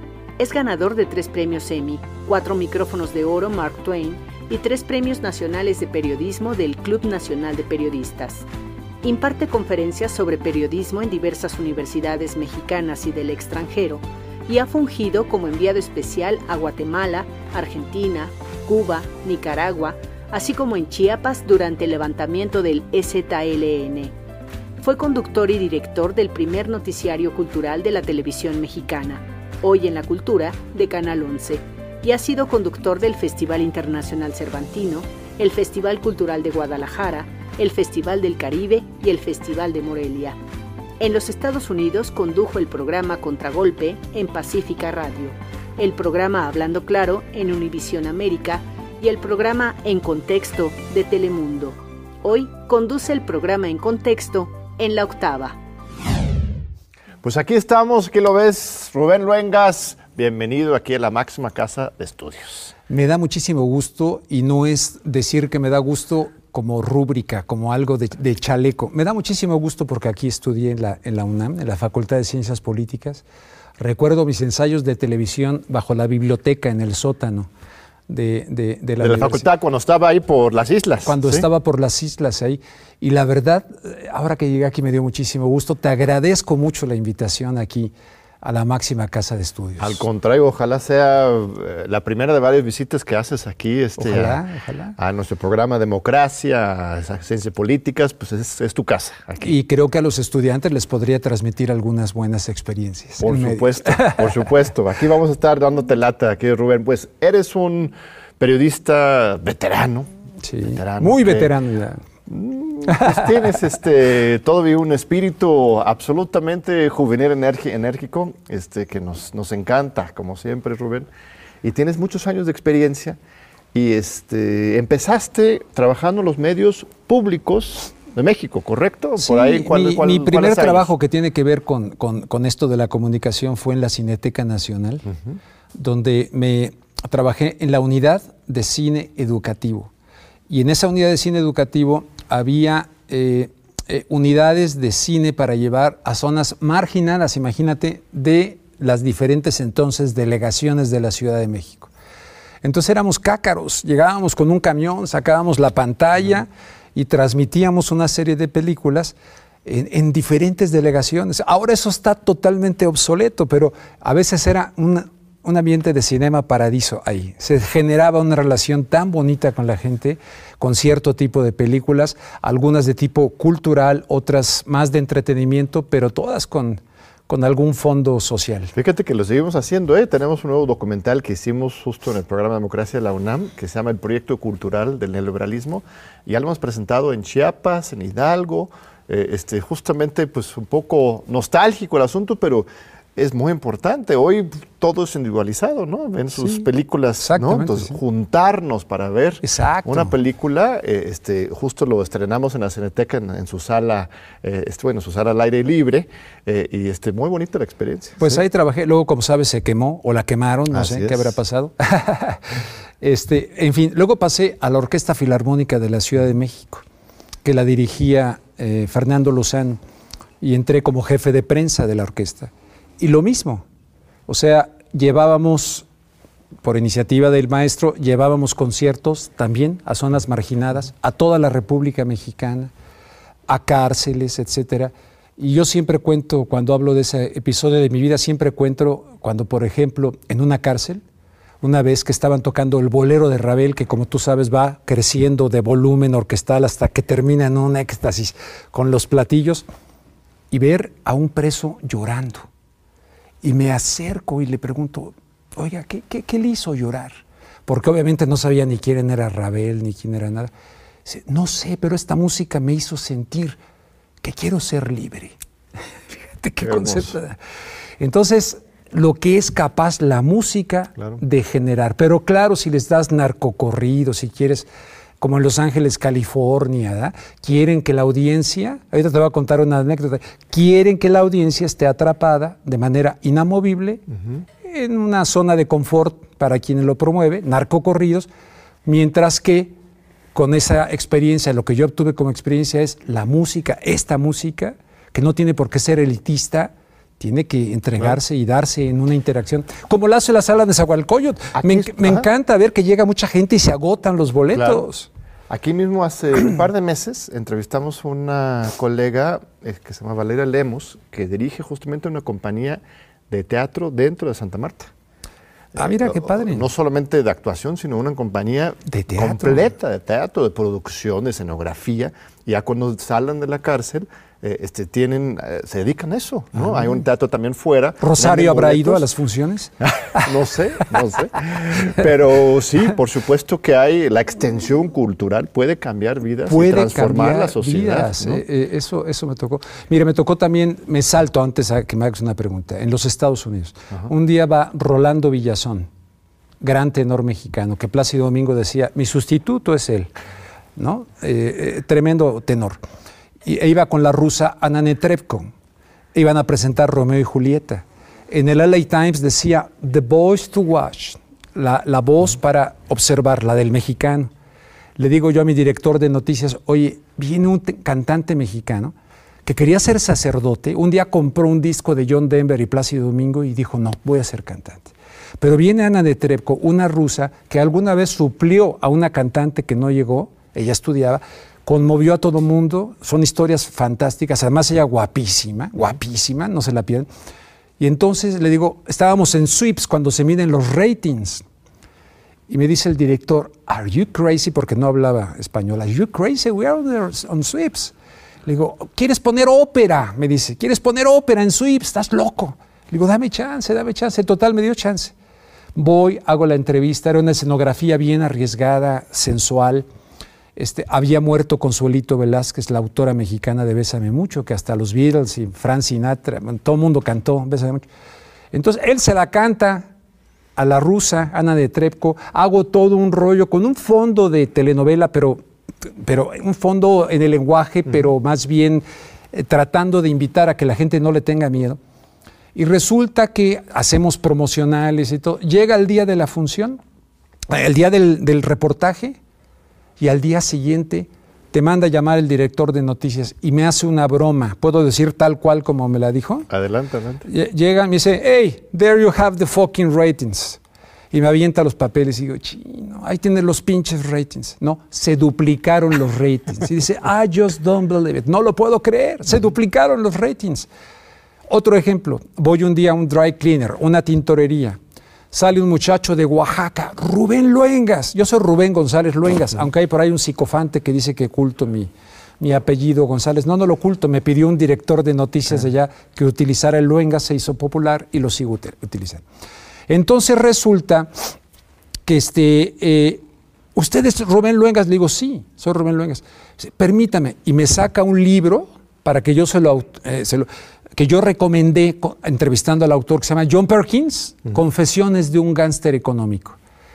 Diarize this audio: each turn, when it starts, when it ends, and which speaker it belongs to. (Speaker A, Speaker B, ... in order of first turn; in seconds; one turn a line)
Speaker A: 0.4-8.5
Speaker A: 9.0-24.1
Speaker A: 24.8-40.4
Speaker A: 41.0-55.6
Speaker B: 57.2-62.7
Speaker C: 62.9-73.2
Speaker C: 73.8-77.5
Speaker C: 78.1-79.5
Speaker B: 79.0-81.4
Speaker C: 81.0-90.0
Speaker B: 89.8-94.4
Speaker C: 94.0-95.0
Speaker B: 95.0-99.6
Speaker C: 99.4-104.5
Speaker B: 103.2-110.1
Speaker C: 110.4-112.0
Speaker B: 110.7-111.5
Speaker B: 112.3-121.1
Speaker C: 112.9-113.5
Speaker B: 121.6-123.2
Speaker B: 123.7-130.9
Speaker C: 129.2-135.1
Speaker C: 135.8-139.9
Speaker C: 140.5-151.9
Speaker C: 152.6-178.7
Speaker B: 178.7-208.4
Speaker C: 196.4-196.7
Speaker C: 197.2-198.0
Speaker C: 199.4-200.1
Speaker C: 208.2-216.8
Speaker B: 210.7-211.4
Speaker C: 217.4-219.8
Speaker C: 220.4-223.7
Speaker C: 224.3-225.8
Speaker C: 226.6-232.7
Speaker C: 233.5-241.0
Speaker C: 241.6-249.7
Speaker C: 250.5-252.5
Speaker C: 253.4-260.5
Speaker C: 261.0-263.6
Speaker C: 264.2-265.3
Speaker C: 266.1-267.4
Speaker B: 266.6-267.1
Speaker C: 268.0-274.7
Speaker C: 275.2-284.0
Speaker C: 284.6-288.3
Speaker C: 288.8-289.7
Speaker C: 290.3-305.1
Speaker B: 301.5-302.3
Speaker B: 304.5-304.9
Speaker B: 305.5-314.9
Speaker B: 315.7-329.1
Speaker C: 315.8-316.6
Speaker C: 318.9-319.6
Speaker C: 328.0-330.2
Speaker B: 330.0-338.4
Speaker C: 336.4-345.9
Speaker C: 346.6-350.1
Speaker C: 350.8-352.8
Speaker C: 353.4-355.5
Speaker C: 356.1-364.3
Speaker C: 365.0-368.9
Speaker C: 369.4-387.1
Speaker C: 387.8-391.4
Speaker C: 392.5-397.9
Speaker C: 398.4-405.1
Speaker C: 405.8-409.9
Speaker C: 410.6-417.8
Speaker C: 418.5-419.9
Speaker C: 420.6-431.8
Speaker C: 432.5-436.8
Speaker C: 437.5-439.2
Speaker C: 440.0-446.5
Speaker B: 446.5-447.2
Speaker C: 447.2-450.6
Speaker C: 451.1-460.7
Speaker C: 461.5-464.8
Speaker C: 465.3-479.2
Speaker C: 479.9-481.4
Speaker C: 482.1-483.2
Speaker C: 483.8-496.6